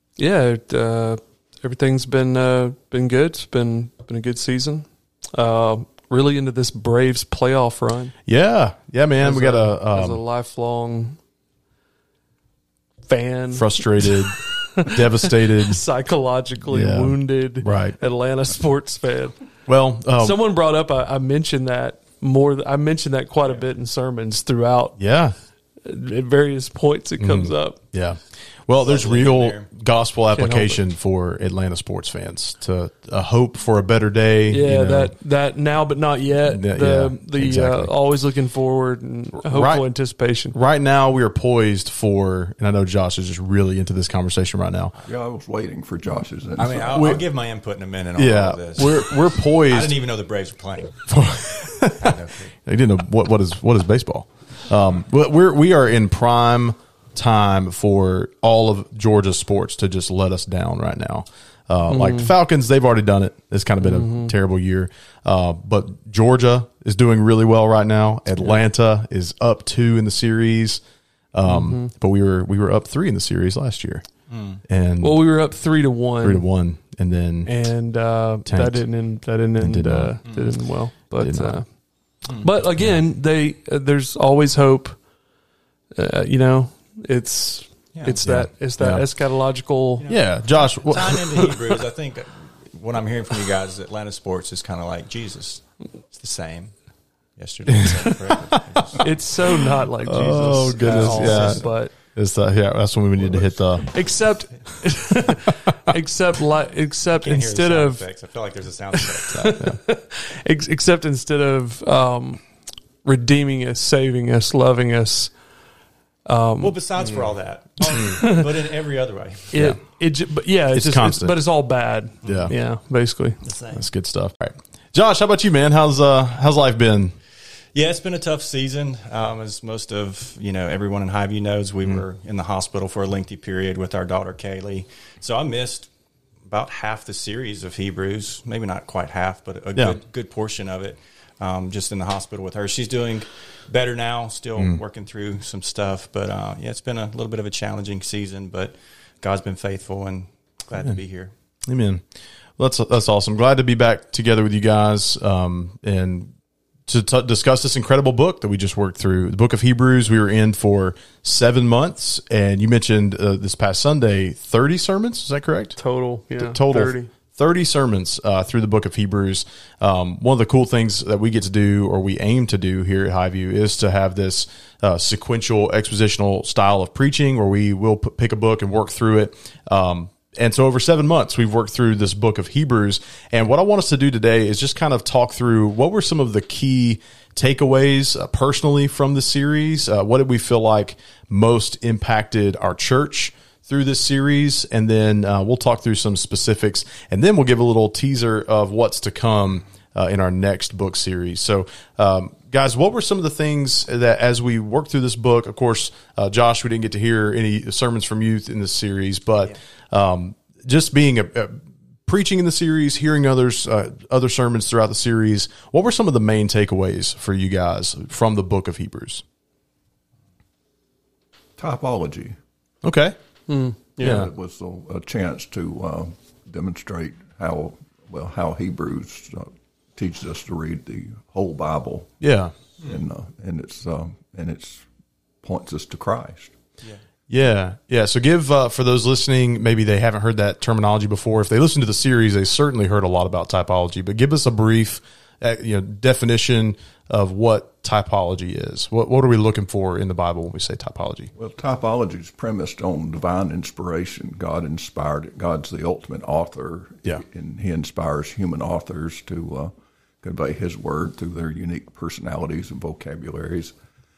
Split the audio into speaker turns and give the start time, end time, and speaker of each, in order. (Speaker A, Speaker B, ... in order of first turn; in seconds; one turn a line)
Speaker A: 0.2-8.1
Speaker B: 8.2-10.2
Speaker A: 9.2-11.2
Speaker A: 13.0-19.4
Speaker B: 13.5-15.8
Speaker B: 16.7-18.0
Speaker B: 19.7-20.4
Speaker A: 20.2-25.0
Speaker B: 25.0-25.4
Speaker A: 25.8-27.8
Speaker B: 27.2-35.1
Speaker C: 28.8-29.7
Speaker A: 30.4-30.8
Speaker A: 34.5-40.5
Speaker B: 36.5-37.9
Speaker B: 39.4-39.8
Speaker B: 40.5-44.9
Speaker D: 45.0-47.2
Speaker C: 46.6-51.0
Speaker B: 46.9-47.2
Speaker B: 48.1-50.0
Speaker B: 51.1-70.8
Speaker C: 51.9-52.5
Speaker A: 61.9-62.3
Speaker A: 63.8-64.3
Speaker B: 71.3-74.0
Speaker A: 71.4-71.9
Speaker C: 74.3-74.6
Speaker B: 74.6-75.2
Speaker A: 75.0-76.4
Speaker B: 76.2-77.5
Speaker A: 77.4-81.7
Speaker B: 78.5-78.9
Speaker B: 79.6-80.2
Speaker B: 81.2-81.6
Speaker A: 82.3-85.0
Speaker A: 85.9-90.1
Speaker B: 88.2-89.0
Speaker C: 90.0-96.8
Speaker B: 90.1-91.5
Speaker C: 97.3-99.2
Speaker B: 97.8-98.3
Speaker A: 99.0-101.9
Speaker B: 100.0-103.9
Speaker C: 100.7-101.7
Speaker D: 103.2-103.5
Speaker A: 103.8-108.0
Speaker C: 107.1-109.6
Speaker A: 109.0-112.4
Speaker B: 109.5-109.8
Speaker A: 113.0-115.3
Speaker A: 116.2-116.8
Speaker C: 116.6-119.6
Speaker A: 117.8-118.5
Speaker B: 117.9-118.1
Speaker A: 119.5-123.4
Speaker B: 119.5-119.8
Speaker B: 120.7-121.3
Speaker B: 122.2-122.5
Speaker C: 123.4-123.8
Speaker B: 123.7-127.2
Speaker C: 127.7-135.9
Speaker C: 136.4-151.3
Speaker B: 151.7-152.0
Speaker B: 152.6-156.3
Speaker B: 156.9-165.8
Speaker A: 165.8-167.1
Speaker B: 166.4-219.2
Speaker D: 221.6-222.4
Speaker B: 222.8-223.2
Speaker A: 223.5-224.2
Speaker B: 224.0-224.3
Speaker D: 224.0-232.2
Speaker B: 232.2-232.5
Speaker D: 232.8-234.8
Speaker D: 235.4-236.5
Speaker B: 237.3-251.3
Speaker D: 251.3-263.7